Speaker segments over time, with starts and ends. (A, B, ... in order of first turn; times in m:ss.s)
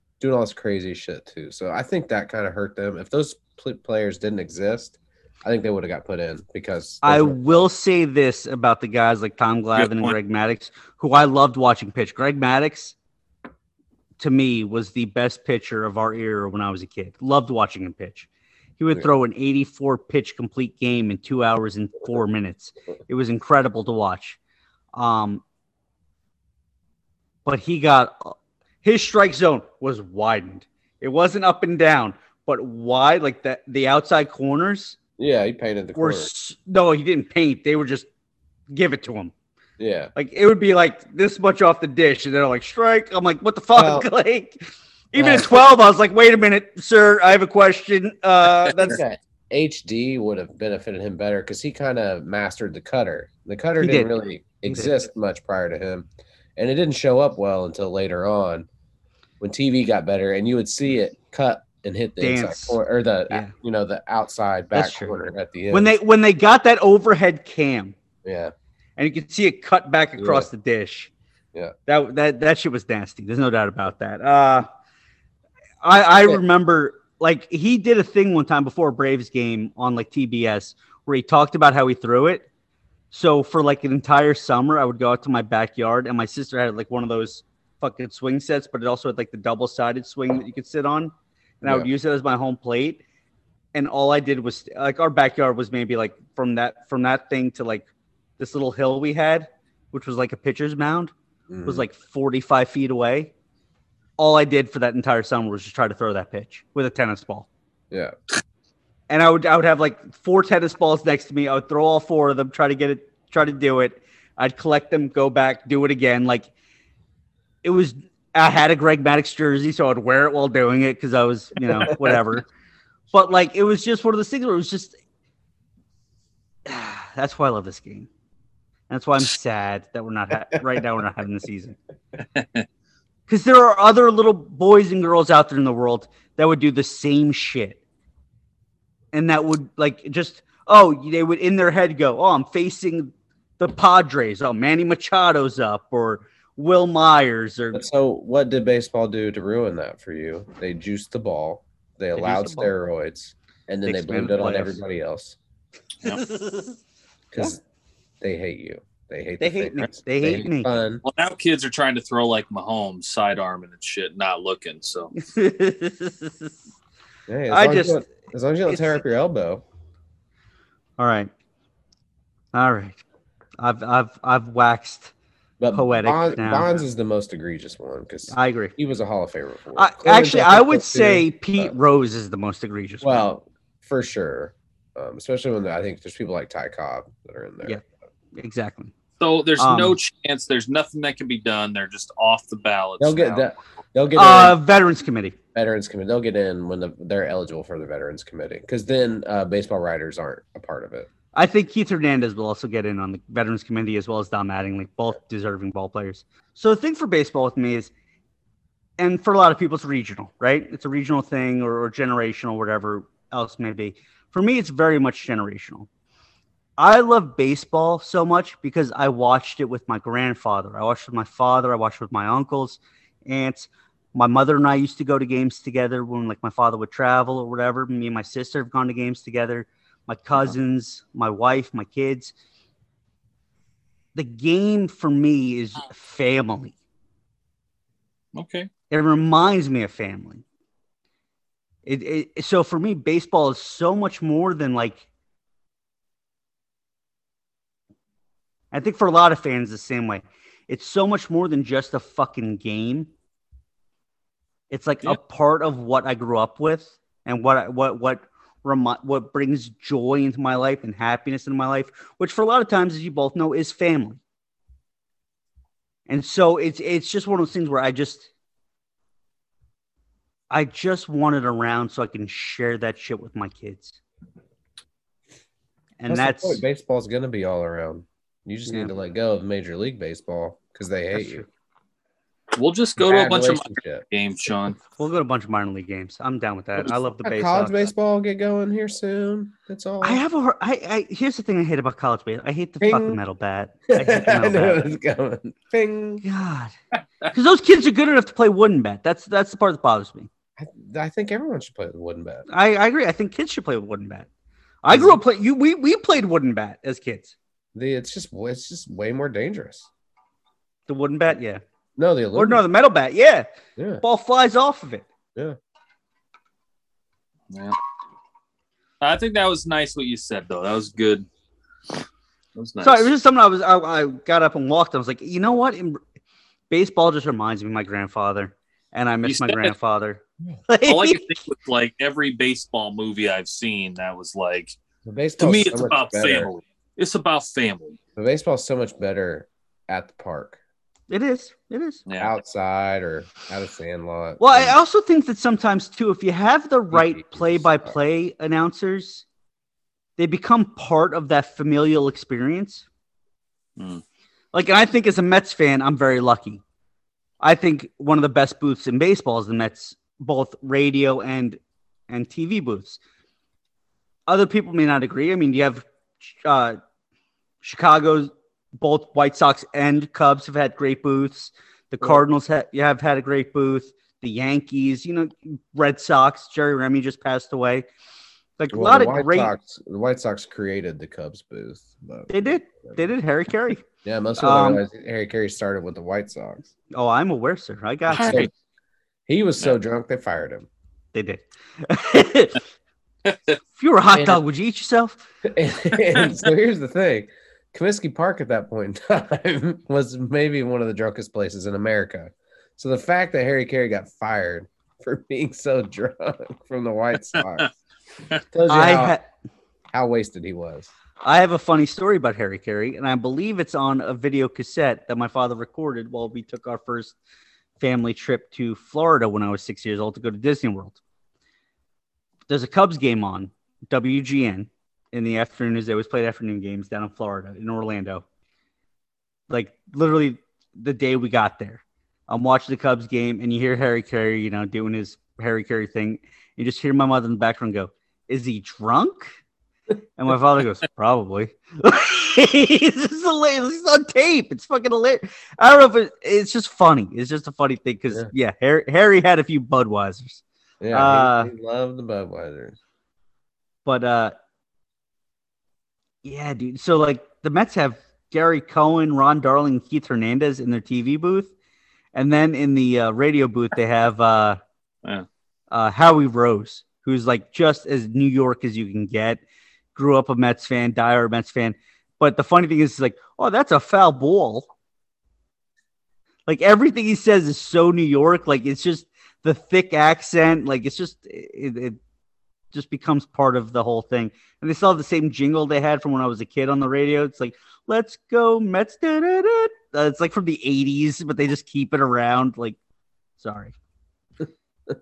0:00.2-0:07.7 A
0:07.0-0:12.9 B
0:09.7-0:10.2 C
0:14.2-0:18.3 B
0:18.8-0:24.4 B
0:24.9-0:25.4 B
0:27.4-0:35.0 B
0:35.2-0:36.3 A
0:36.0-0:38.1 B
0:38.7-0:39.3 B
0:39.8-0:40.1 A
0:40.1-0:44.6 B
0:43.7-0:44.1 A
0:45.1-0:49.0 B
0:45.1-0:45.6 A
0:48.8-0:58.7 A
0:53.8-0:54.1 B
0:59.4-1:05.9 A
1:02.2-1:02.8 B
1:04.7-1:07.9 B
1:08.2-1:08.5 A
1:09.0-1:11.1 B
1:10.2-1:10.5 A
1:11.9-1:14.7 B
1:15.8-1:22.4 B
1:23.1-1:33.0 B
1:31.6-1:31.9 A
1:33.7-1:37.9 B
1:38.4-1:41.1 B
1:41.5-1:41.8 A
1:41.6-1:43.3 B
1:44.2-1:47.5 B
1:49.1-1:56.5 B
1:57.6-2:02.5 B
2:01.9-2:02.2 A
2:03.1-2:05.0 B
2:06.6-2:08.1 B
2:08.9-2:11.8 B
2:10.5-2:10.8 A
2:12.3-2:12.7 C
2:13.3-2:17.8 B
2:19.1-2:27.8 B
2:27.7-2:35.4 A
2:32.2-2:32.7 B
2:33.8-2:34.8 B
2:36.0-2:36.8 B
2:37.3-2:37.6 A
2:38.2-2:41.0 A
2:39.4-2:40.7 B
2:41.0-2:45.1 C
2:45.2-2:46.5 B
2:47.3-2:49.6 A
2:47.5-2:48.1 B
2:48.7-2:49.0 B
2:51.0-2:51.3 B
2:52.5-2:53.0 B
2:53.6-2:55.1 B
2:55.6-3:01.7 A
2:55.7-2:56.8 B
2:58.3-2:58.7 B
2:59.8-3:03.2 B
3:03.0-3:07.8 A
3:08.3-3:08.9 B
3:09.2-3:13.5 C
3:09.6-3:10.0 B
3:13.0-3:14.6 A
3:14.1-3:15.4 B
3:15.5-3:21.1 A
3:21.3-3:27.9 B
3:29.0-3:35.9 B
3:36.8-3:52.3 B
3:54.1-3:56.7 B
3:58.3-3:58.7 C
3:58.9-4:00.4 B
4:01.8-4:05.0 B
4:08.7-4:13.1 B
4:14.7-4:24.2 B
4:26.1-4:28.3 B
4:30.5-4:34.0 B
4:36.0-4:36.6 B
4:36.1-4:41.4 A
4:41.1-4:41.4 B
4:42.6-4:44.8 C
4:43.0-4:44.0 A
4:45.0-4:47.9 B
4:47.2-4:50.2 A
4:50.0-4:54.9 B
4:52.8-4:53.2 A
4:53.9-4:56.2 A
4:56.2-4:56.7 B
4:57.2-5:00.3 B
5:00.6-5:02.4 A
5:02.5-5:04.3 B
5:04.8-5:07.3 B
5:04.9-5:05.2 A
5:07.7-5:09.9 A
5:10.9-5:11.6 B
5:12.0-5:12.6 A
5:12.3-5:13.5 B
5:13.8-5:14.0 A
5:14.0-5:15.0 B
5:17.5-5:17.8 C
5:19.0-5:21.3 C
5:22.5-5:23.1 C
5:22.8-5:26.0 B
5:26.7-5:31.2 B
5:29.2-5:29.7 C
5:30.8-5:34.8 C
5:35.0-5:36.5 A
5:35.4-5:38.0 C
5:38.2-5:40.6 A
5:41.1-5:42.0 B
5:42.1-5:42.3 C
5:42.2-5:44.8 A
5:44.4-5:49.2 B
5:46.9-5:48.0 A
5:50.2-5:52.8 B
5:53.8-5:54.0 C
5:54.5-5:56.6 B
5:57.4-6:03.0 B
6:04.3-6:06.8 B
6:07.6-6:17.8 B
6:18.6-6:19.5 B
6:18.7-6:23.0 A
6:22.3-6:23.8 B
6:24.0-6:26.6 A
6:24.4-6:24.8 B
6:26.9-6:28.5 B
6:28.1-6:28.5 A
6:29.3-6:30.7 A
6:31.1-6:32.6 B
6:33.2-6:33.6 C
6:33.8-6:35.2 B
6:34.1-6:34.4 A
6:35.4-6:47.7 A
6:47.3-6:47.7 C
6:48.5-6:49.2 A
6:48.7-6:49.2 B
6:49.9-6:50.9 A
6:51.2-6:57.2 B
6:57.8-7:01.0 B
7:02.5-7:08.2 B
7:09.5-7:19.3 B
7:20.2-7:31.5 B
7:30.8-7:32.8 A
7:33.8-7:34.3 B
7:36.2-7:41.5 B
7:42.1-7:44.6 B
7:45.7-7:49.4 B
7:49.9-7:54.7 B
7:56.4-8:02.0 B
8:02.7-8:12.8 B
8:13.4-8:13.7 B